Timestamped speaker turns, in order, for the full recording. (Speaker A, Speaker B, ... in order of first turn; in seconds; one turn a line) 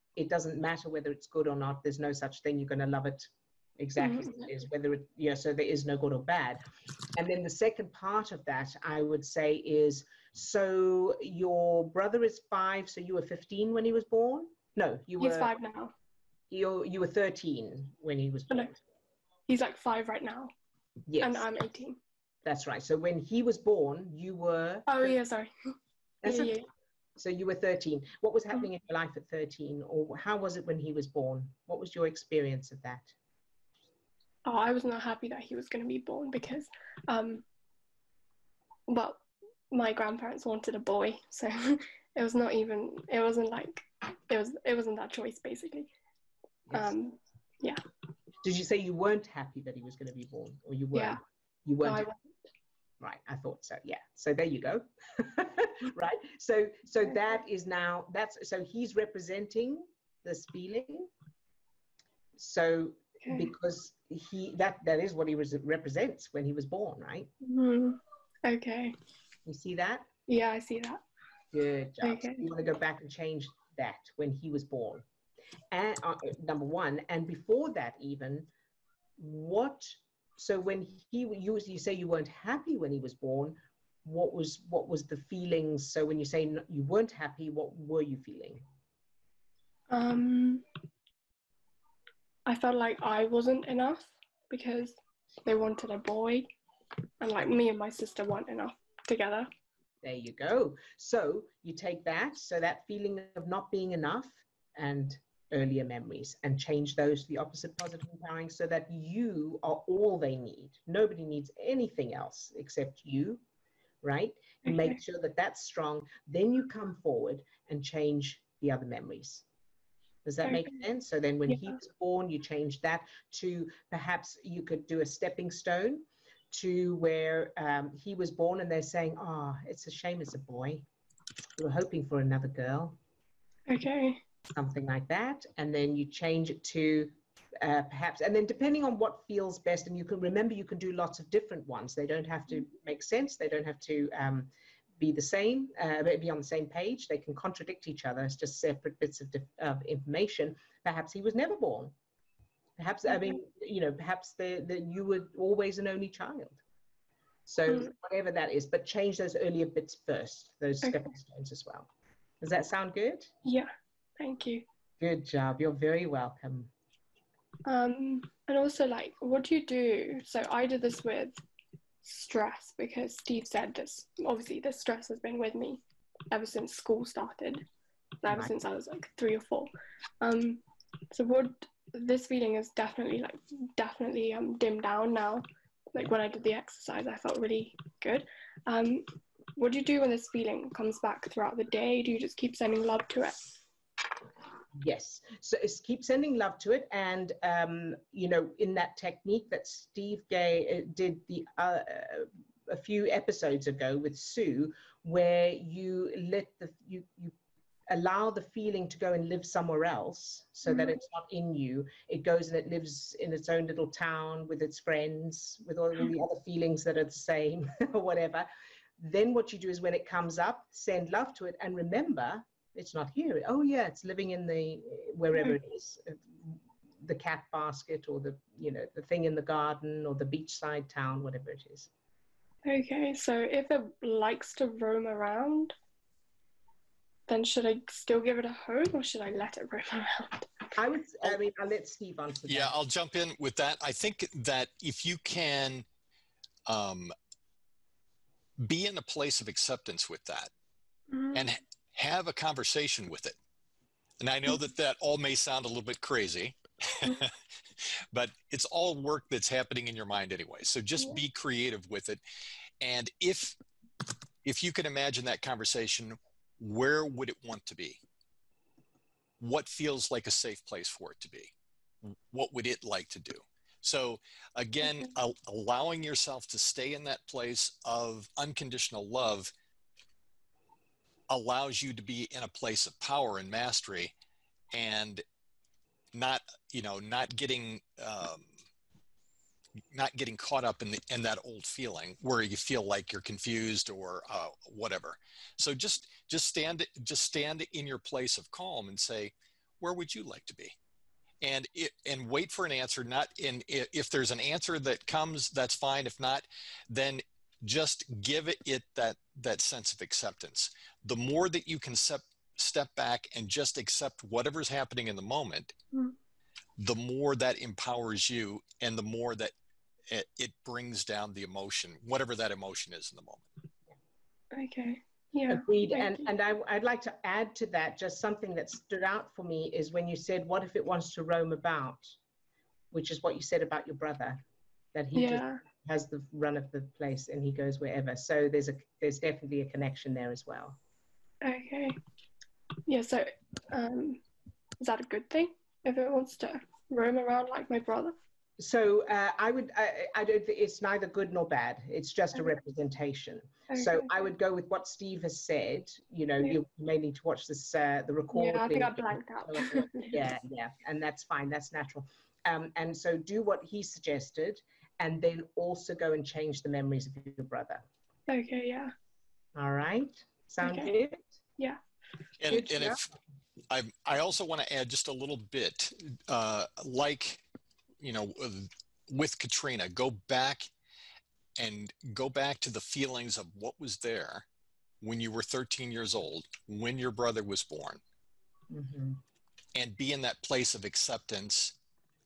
Speaker A: 0.1-6.6
Speaker B: 4.0-4.5
Speaker A: 7.1-15.5
Speaker B: 15.2-15.9
Speaker A: 16.5-18.8
Speaker B: 19.5-20.5
Speaker A: 21.1-21.4
Speaker B: 21.2-22.0
Speaker A: 22.4-25.2
Speaker B: 24.9-25.5
Speaker A: 26.2-26.6
Speaker B: 26.2-26.6
Speaker A: 27.2-33.1
Speaker B: 34.5-37.5
Speaker B: 38.9-45.9
Speaker A: 46.7-46.9
Speaker B: 46.7-47.8
Speaker A: 48.4-52.1
Speaker B: 50.9-51.2
Speaker B: 51.8-52.2
Speaker A: 53.0-61.1
Speaker A: 62.4-67.3
Speaker B: 67.4-69.0
Speaker A: 69.5-70.1
Speaker B: 70.3-71.0
Speaker A: 71.5-75.0
Speaker B: 72.0-72.4
Speaker A: 75.7-78.5
Speaker A: 79.2-88.6
Speaker B: 89.9-90.6
Speaker B: 92.5-96.5
Speaker B: 97.2-99.5
Speaker A: 100.0-113.4
Speaker A: 114.0-119.4
Speaker A: 120.2-130.8
Speaker B: 120.4-120.7
Speaker A: 131.6-133.0
Speaker B: 133.7-134.2
Speaker A: 134.5-151.9
Speaker A: 152.8-156.6
Speaker A: 157.5-161.9
Speaker A: 162.4-163.3
Speaker B: 163.4-164.6
Speaker A: 165.0-166.7
Speaker B: 167.7-171.4
Speaker B: 172.0-175.8
Speaker B: 176.3-177.6
Speaker B: 178.2-193.6
Speaker A: 178.3-178.6
Speaker A: 194.7-207.3
Speaker A: 207.9-218.5
Speaker B: 210.7-210.9
Speaker A: 219.0-231.9
Speaker B: 232.6-235.7
Speaker B: 237.3-240.5
Speaker A: 240.8-242.7
Speaker C: 242.5-245.9
Speaker C: 246.7-247.1
Speaker C: 248.6-250.5
Speaker B: 251.1-251.5
Speaker C: 251.3-253.4
Speaker C: 254.2-262.2
Speaker C: 262.8-263.6
Speaker C: 264.4-268.0
Speaker C: 269.4-279.5
Speaker C: 281.3-284.1
Speaker C: 284.7-285.2
Speaker C: 286.1-288.5
Speaker C: 289.9-300.8
Speaker C: 301.4-315.7
Speaker C: 316.8-319.5
Speaker C: 320.1-323.4
Speaker B: 324.5-326.2
Speaker A: 325.5-332.1
Speaker A: 332.9-334.4
Speaker A: 334.9-340.8
Speaker B: 335.1-335.6
Speaker B: 341.4-342.0
Speaker B: 342.9-344.2
Speaker B: 344.8-348.1
Speaker A: 348.6-367.8
Speaker B: 353.7-354.1
Speaker B: 358.3-360.2
Speaker B: 368.3-368.9
Speaker A: 369.6-371.3
Speaker B: 370.6-370.9
Speaker C: 372.4-373.0
Speaker A: 372.5-373.0
Speaker C: 373.7-377.4
Speaker C: 378.0-380.7
Speaker C: 381.6-384.4
Speaker C: 385.0-388.0
Speaker A: 388.7-389.2
Speaker C: 389.7-391.8